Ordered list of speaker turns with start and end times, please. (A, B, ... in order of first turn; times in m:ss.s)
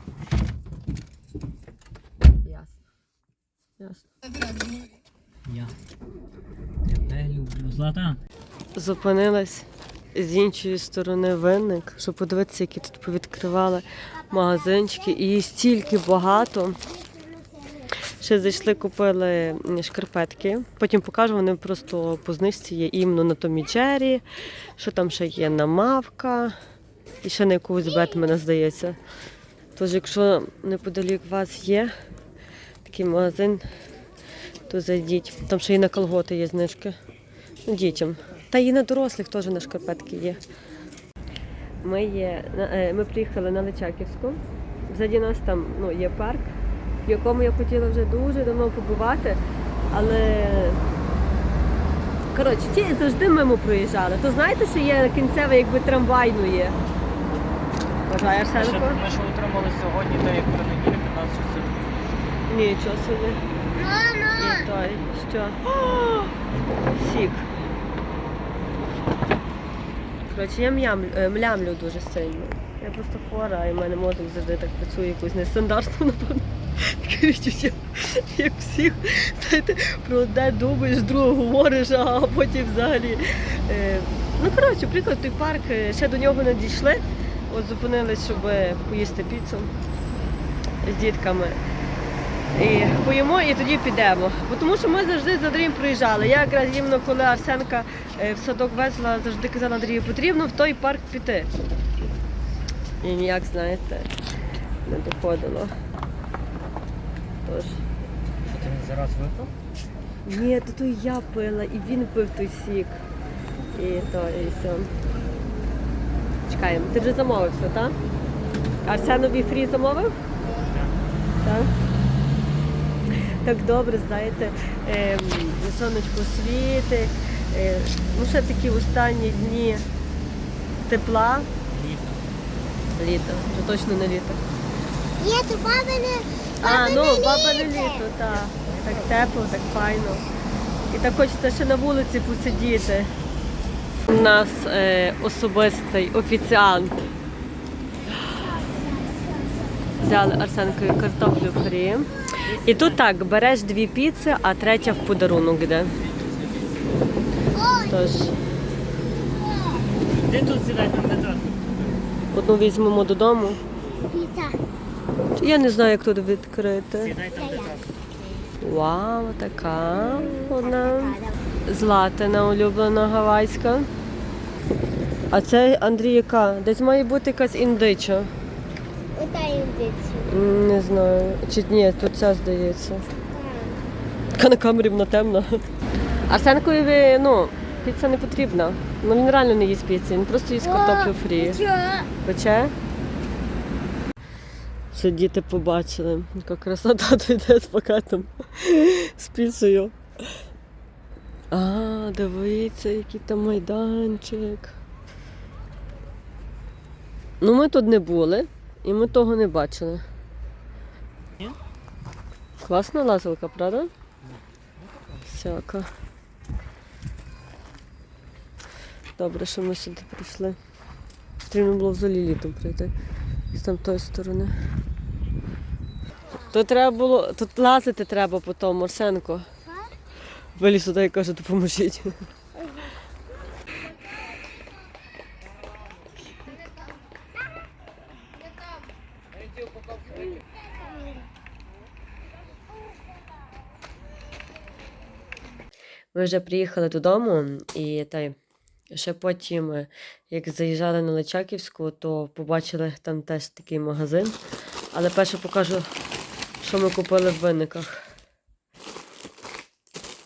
0:02.4-0:02.8 A
0:03.8-0:04.1 A
0:05.5-0:05.7 B
0:06.8-0:08.2 B
0:08.7-0:16.9 A
0:16.9-0:17.9 C
0:18.1-0:24.2 A
0:24.8-0:26.5 A
0:27.2-0:29.0 A
0:29.8-0:31.9 A
0:32.8-0:33.6 A
0:34.7-0:37.0 A
0:37.6-0:40.4 A
0:41.8-0:46.5 A
0:47.0-0:50.8 A
0:52.3-0:56.8 A
0:58.1-0:59.0 A
0:58.5-1:02.0 B
1:02.5-1:03.4 A
1:03.8-1:04.7 C
1:04.4-1:06.3 A
1:06.9-1:07.5 A
1:10.2-1:29.7 A
1:30.8-1:31.6 A
1:32.5-1:41.5 A
1:43.0-1:44.1 A
1:44.8-1:45.7 A
1:47.4-1:47.8 A
1:48.4-1:49.5 B
1:50.2-1:53.0 A
1:53.7-1:54.9 A
1:56.5-1:58.0 A
1:58.8-2:00.2 A
2:01.4-2:01.7 A
2:03.4-2:09.8 A
2:10.9-2:11.5 A
2:11.7-2:12.3 B
2:13.0-2:14.4 A
2:15.2-2:18.1 C
2:16.6-2:20.3 A
2:18.5-2:19.2 B
2:20.9-2:23.1 A
2:24.1-2:27.0 A
2:28.2-2:30.0 C
2:30.0-2:35.9 A
2:32.5-2:32.9 B
2:37.6-2:38.0 C
2:37.8-2:38.4 A
2:39.4-2:39.9 C
2:40.0-2:42.0 B
2:42.3-2:43.6 A
2:44.1-2:44.6 C
2:45.4-2:47.1 A
2:47.0-2:48.0 B
2:47.4-2:47.8 C
2:48.6-2:53.9 A
2:50.0-2:51.4 C
2:55.3-2:58.3 A
2:59.2-3:00.4 C
3:00.2-3:03.1 A
3:03.3-3:03.8 C
3:04.4-3:05.6 A
3:06.3-3:11.6 A
3:10.6-3:12.1 C
3:12.2-3:12.8 A
3:14.9-3:20.0 A
3:21.5-3:24.8 A
3:27.4-3:30.0 A
3:32.6-3:33.9 A
3:34.3-3:35.2 B
3:35.3-3:35.9 A
3:39.2-3:40.6 A
3:41.5-3:42.9 A
3:43.5-3:44.5 A
3:46.5-3:49.5 A
3:49.6-3:50.0 C
3:50.6-3:52.1 A
4:06.1-4:08.4 A
4:08.9-4:14.3 A
4:14.9-4:15.9 A
4:16.6-4:18.1 A